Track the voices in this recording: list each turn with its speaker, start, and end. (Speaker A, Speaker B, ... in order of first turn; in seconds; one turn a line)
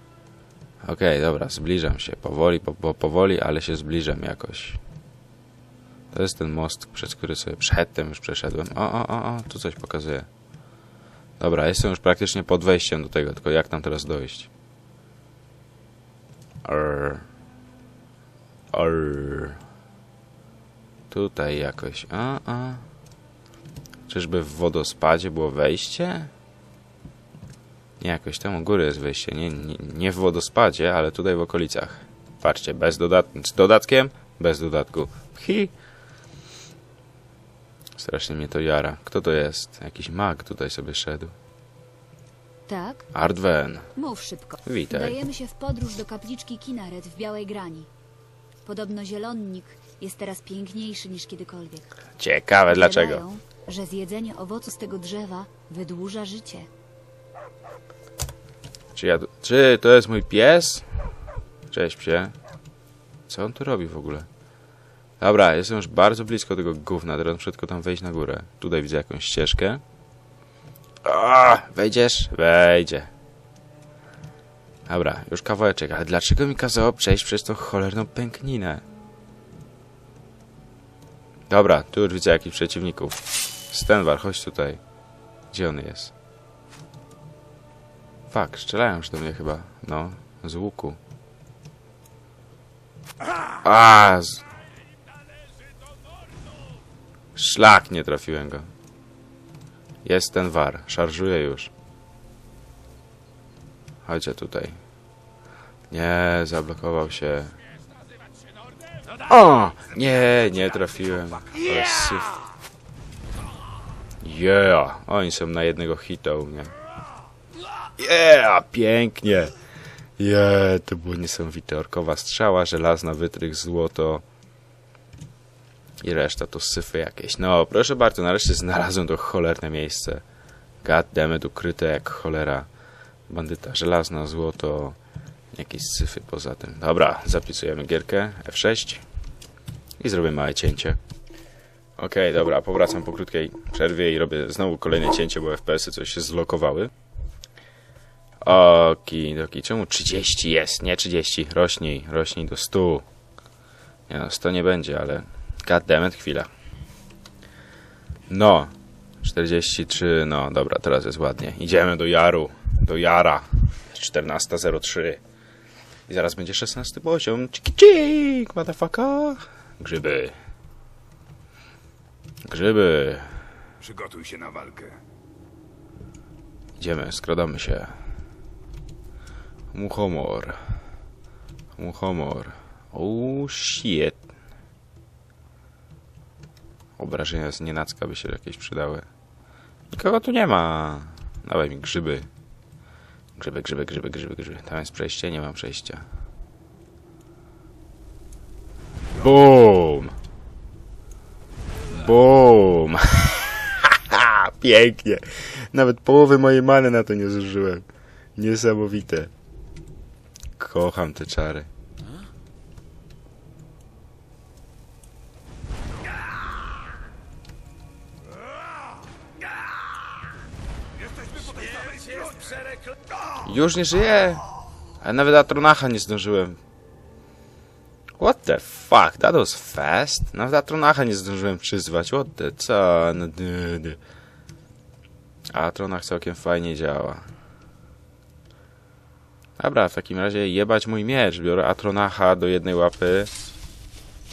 Speaker A: 0.8-4.8
Speaker A: 6.1-10.3
Speaker A: 11.4-14.5
Speaker A: 16.6-17.2
Speaker A: 18.7-19.6
Speaker A: 21.1-22.8
Speaker A: 24.1-26.3
Speaker A: 28.0-35.7
Speaker A: 38.0-41.3
Speaker B: 42.7-43.1
Speaker A: 43.1-43.9
Speaker B: 44.0-47.9
Speaker A: 44.6-45.2
Speaker B: 48.6-51.9
Speaker A: 52.2-53.2
Speaker B: 52.7-56.7
Speaker A: 58.9-60.9
Speaker A: 61.7-62.3
Speaker A: 63.3-64.3
Speaker A: 65.2-69.8
Speaker A: 71.0-73.1
Speaker A: 74.9-78.8
Speaker A: 81.5-84.8
Speaker A: 85.5-86.1
Speaker A: 88.3-91.0
Speaker A: 93.6-94.5
Speaker A: 97.3-98.7
Speaker A: 100.0-101.7
Speaker A: 104.0-104.8
Speaker A: 105.9-107.5
Speaker A: 109.2-112.4
Speaker A: 114.2-116.7
Speaker A: 118.0-119.5
Speaker A: 120.2-124.2
Speaker A: 126.0-130.2
Speaker A: 130.8-132.7
Speaker A: 133.3-135.0
Speaker A: 135.5-139.0
Speaker A: 140.0-141.0
Speaker A: 142.0-146.9
Speaker A: 148.4-153.0
Speaker A: 154.1-156.5
Speaker A: 158.3-165.2
Speaker A: 166.1-170.3
Speaker A: 172.4-173.4
Speaker C: 173.8-174.9
Speaker A: 176.8-177.9
Speaker A: 179.7-180.6
Speaker A: 181.8-184.2
Speaker A: 187.0-189.1
Speaker A: 189.9-192.3
Speaker A: 193.4-196.0
Speaker A: 199.1-200.1
Speaker A: 201.9-207.8
Speaker A: 208.4-209.3
Speaker A: 210.6-211.7
Speaker C: 221.2-222.3
Speaker A: 223.4-224.5
Speaker A: 225.0-226.6
Speaker A: 228.2-234.0
Speaker A: 235.5-237.2
Speaker A: 239.6-243.3